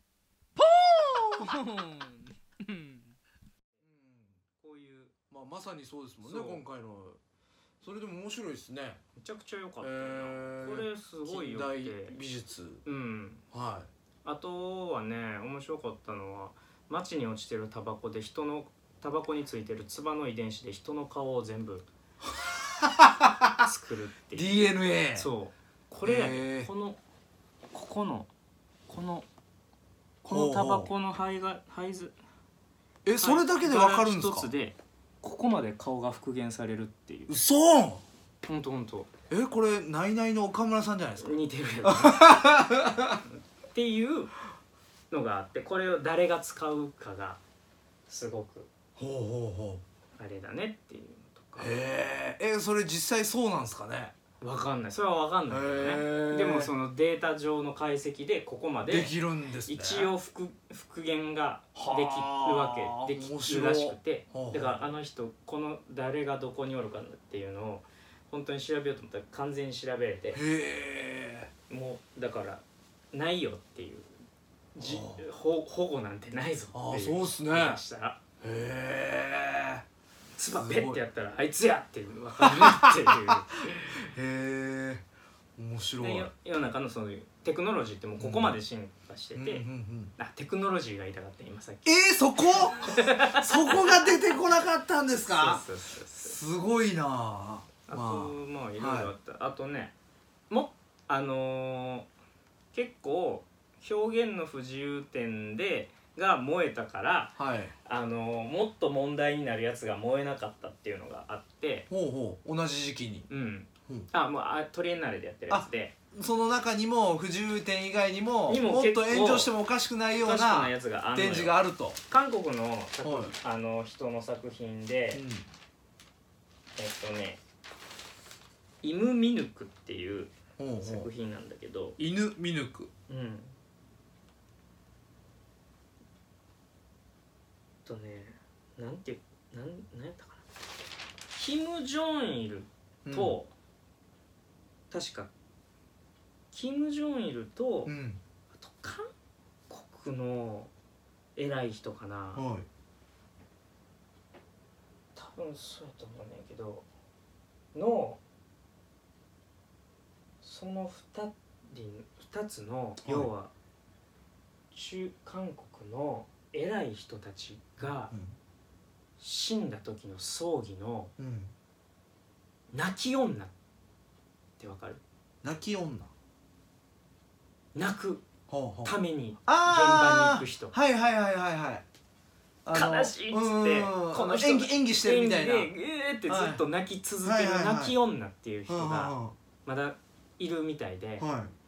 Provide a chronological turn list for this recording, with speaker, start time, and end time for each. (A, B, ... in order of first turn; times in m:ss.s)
0:00.6-0:03.1 A
0:03.8-0:04.4 B
0:04.6-0:05.1 A
0:05.3-0:07.2 B
0:06.2-0:06.6 A
0:07.8-0:09.0 B
0:09.2-0:12.2 A
0:09.8-0:12.8 B
0:12.8-0:13.4 A
0:13.5-0:13.9 B
0:14.2-0:21.9 A
0:22.3-0:23.7 B
0:23.6-0:24.6 A
0:24.4-0:25.3 B
0:25.2-0:27.0 A
0:26.0-0:26.7 B
0:27.7-0:28.3 A
0:28.9-0:29.3 A
0:30.2-0:32.1 A
0:30.3-0:30.9 B
0:33.0-0:34.5 B
0:33.2-0:37.4 A
0:37.3-0:38.0 B
0:38.4-0:39.1 A
0:39.3-0:43.2 B
0:41.2-0:42.4 A
0:43.3-0:44.3 A
0:45.1-0:47.4 A
0:48.1-0:48.7 A
0:49.0-0:49.8 B
0:50.2-0:51.8 A
0:51.6-0:54.1 B
0:54.4-0:59.1 A
0:55.5-0:56.7 B
0:58.9-1:00.1 B
0:59.7-1:10.4 A
1:01.8-1:04.8 B
1:10.3-1:11.5 B
1:11.7-1:14.1 A
1:14.8-1:18.2 A
1:14.8-1:15.2 B
1:16.7-1:17.8 B
1:18.4-1:19.8 B
1:20.4-1:24.0 A
1:20.5-1:21.0 B
1:22.4-1:25.1 B
1:25.6-1:26.3 B
1:26.0-1:29.7 A
1:28.2-1:28.6 B
1:29.4-1:30.2 B
1:30.2-1:31.9 A
1:31.8-1:39.1 B
1:32.6-1:34.2 A
1:35.4-1:36.4 A
1:37.9-1:39.9 A
1:40.5-1:42.1 A
1:42.7-1:51.9 A
1:47.4-1:47.7 B
1:51.9-1:53.3 B
1:53.3-1:55.9 A
1:55.5-2:02.0 B
1:58.5-1:59.5 A
2:00.2-2:05.2 A
2:03.0-2:03.4 B
2:05.1-2:05.5 B
2:06.8-2:07.4 A
2:08.8-2:12.0 A
2:10.6-2:11.1 B
2:12.0-2:12.9 B
2:13.1-2:13.5 A
2:17.8-2:20.4 A
2:21.3-2:23.5 A
2:23.1-2:23.4 B
2:24.9-2:25.3 A
2:26.5-2:27.9 A
2:27.9-2:28.2 B
2:28.6-2:29.1 A
2:29.7-2:30.7 A
2:31.4-2:32.5 A
2:32.4-2:32.6 B
2:35.2-2:36.9 A
2:37.7-2:38.2 A
2:40.4-2:43.5 A
2:43.0-2:43.3 B
2:44.7-2:48.1 A
2:48.1-2:48.4 B
2:49.2-2:51.1 A
2:51.2-2:51.5 B
2:52.7-2:53.5 A
2:54.6-2:55.0 A
2:55.4-2:56.1 B
2:57.8-2:58.2 A
2:58.5-2:58.9 B
2:58.8-3:00.7 A
2:59.5-3:01.8 B
3:02.7-3:05.7 B
3:02.7-3:11.3 A
3:06.3-3:06.6 B
3:07.2-3:08.0 B
3:08.7-3:09.4 B
3:11.2-3:11.5 B